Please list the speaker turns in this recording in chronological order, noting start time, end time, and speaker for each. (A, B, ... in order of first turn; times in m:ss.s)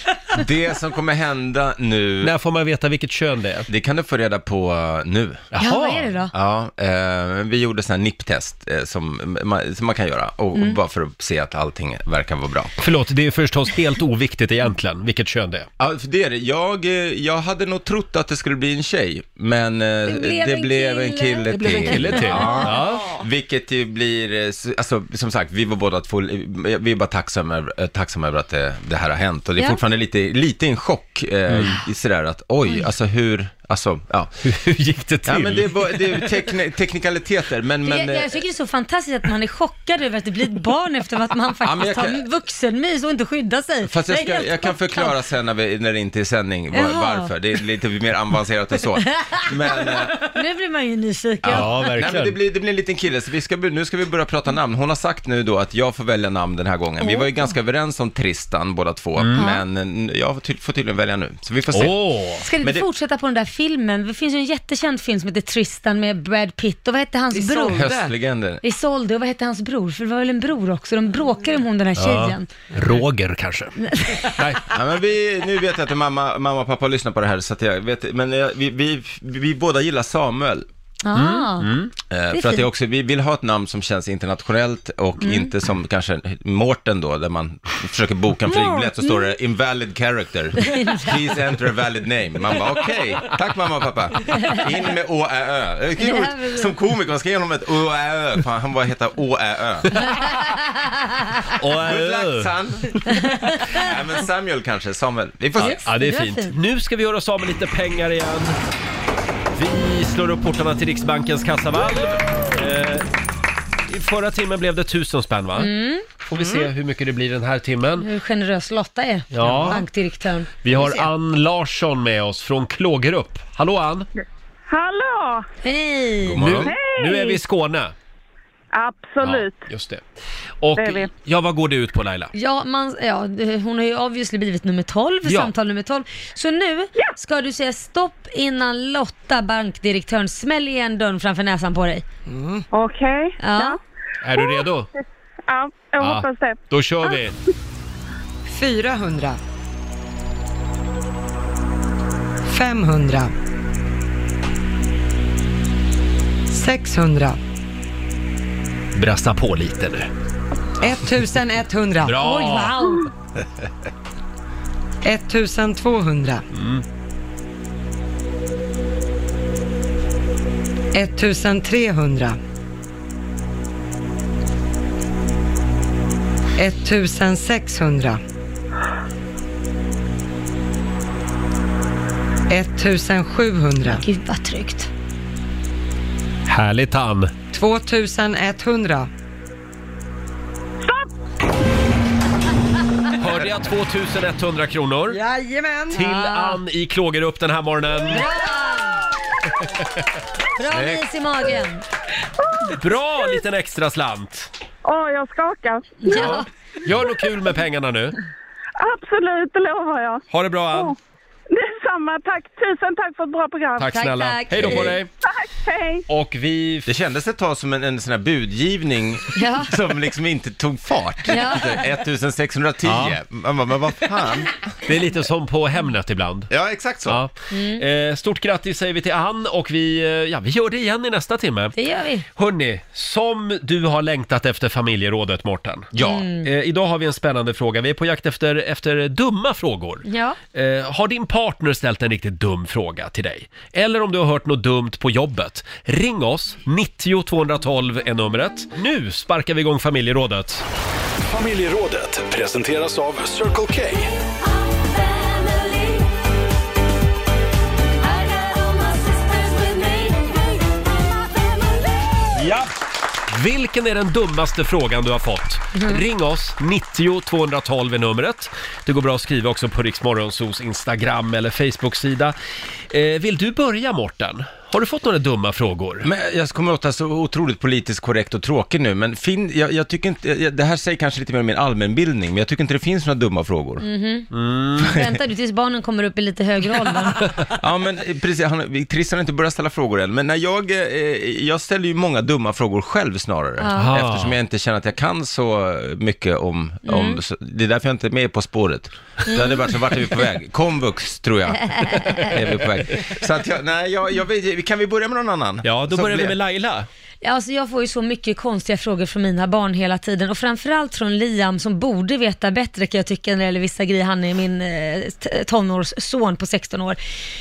0:00.3-0:02.3 A
0:02.2-0:03.7 B
0:03.7-0:05.5 A
0:05.5-0:06.2 B
0:05.6-0:06.3 C
0:06.3-0:12.8 A
0:12.8-0:15.7 B
0:15.8-0:34.3 A
0:20.1-0:22.7 C
0:21.5-0:23.0 B
0:31.5-0:31.8 B
0:34.4-0:36.3 B
0:35.2-0:38.4 A
0:37.8-0:45.1 C
0:41.6-0:42.2 A
0:43.8-0:50.4 A
0:46.7-0:47.3 C
0:49.1-0:51.9 C
0:51.4-1:02.0 A
0:51.5-0:52.4 B
0:57.0-0:57.3 C
0:59.2-0:59.4 B
0:59.4-0:59.6 C
1:01.7-1:02.4 B
1:02.4-1:07.8 C
1:02.6-1:02.8 A
1:07.3-1:08.1 D
1:07.7-1:08.6 A
1:08.6-1:12.5 C
1:12.0-1:14.6 B
1:13.8-1:14.4 C
1:14.7-1:20.7 A
1:21.0-1:21.7 C
1:21.1-1:21.9 B
1:22.1-1:40.3 A
1:22.3-1:22.6 C
1:25.2-1:25.5 C
1:28.5-1:29.3 C
1:30.6-1:31.2 C
1:36.0-1:36.7 C
1:41.6-1:42.5 B
1:41.8-1:45.8 A
1:43.2-1:43.9 C
1:45.6-1:48.6 B
1:45.6-1:46.5 C
1:49.5-1:53.0 B
1:53.9-1:55.7 B
1:55.6-1:56.1 C
1:56.3-1:58.1 B
1:58.0-2:00.6 C
1:59.3-1:59.8 B
2:00.6-2:04.1 B
2:04.7-2:05.4 E
2:05.6-2:06.4 C
2:06.2-2:06.7 A
2:06.4-2:07.9 B
2:06.7-2:07.4 E
2:08.7-2:09.6 E
2:09.2-2:10.0 B
2:10.6-2:12.3 B
2:10.8-2:11.1 E
2:12.3-2:22.0 C
2:15.2-2:15.5 B
2:22.3-2:22.6 D
2:22.7-2:23.8 E
2:23.4-2:23.8 C
2:24.2-2:24.9 B
2:24.3-2:24.6 E
2:25.5-2:27.2 E
2:26.0-2:27.4 B
2:28.4-2:29.4 D
2:32.4-2:33.3 D
2:36.5-2:37.4 D
2:38.9-2:40.1 B
2:40.8-2:42.2 D
2:42.0-2:42.8 B
2:42.2-2:43.1 C
2:45.0-2:46.4 D
2:46.5-2:46.8 B
2:50.9-2:52.4 D
2:56.6-2:58.2 D
3:02.5-3:04.0 D
3:04.0-3:04.9 C
3:06.5-3:07.3 B
3:07.5-3:09.1 D
3:13.2-3:15.2 B
3:15.1-3:16.0 D
3:15.9-3:18.2 B
3:16.0-3:16.6 C
3:18.1-3:19.0 C
3:20.6-3:21.8 C
3:20.7-3:21.0 A
3:22.7-3:24.5 B
3:24.8-3:26.4 E
3:26.0-3:26.4 C
3:26.1-3:28.1 B
3:28.8-3:31.0 E
3:30.3-3:30.9 B
3:31.5-3:34.0 E
3:33.8-3:35.1 B
3:33.9-3:34.9 C
3:34.6-3:34.9 A
3:35.2-3:36.0 E
3:36.1-3:36.9 B
3:36.8-3:44.6 A
3:39.4-3:39.7 C
3:41.3-3:41.8 C
3:42.8-3:43.2 B
3:44.9-3:46.5 B
3:46.5-3:47.2 A
3:47.0-3:51.7 B
3:47.5-3:47.8 C
3:51.8-3:52.2 C
3:52.4-3:55.9 B
3:55.9-3:56.3 A
3:56.0-3:56.5 C
3:56.4-4:10.6 B
4:00.1-4:00.4 C
4:11.2-4:14.1 F
4:18.2-4:20.3 C
4:22.3-4:22.7 B
4:23.3-4:32.3 B
4:32.9-4:36.1 B
4:36.0-4:43.8 A
4:43.8-4:44.3 C
4:44.3-4:44.9 B
4:44.8-4:47.3 C
4:47.6-5:06.4 A
4:53.6-4:53.9 C
4:53.8-4:54.3 B
4:56.8-4:57.2 C
4:59.3-4:59.6 C
5:05.6-5:06.9 B
5:07.2-5:17.0 C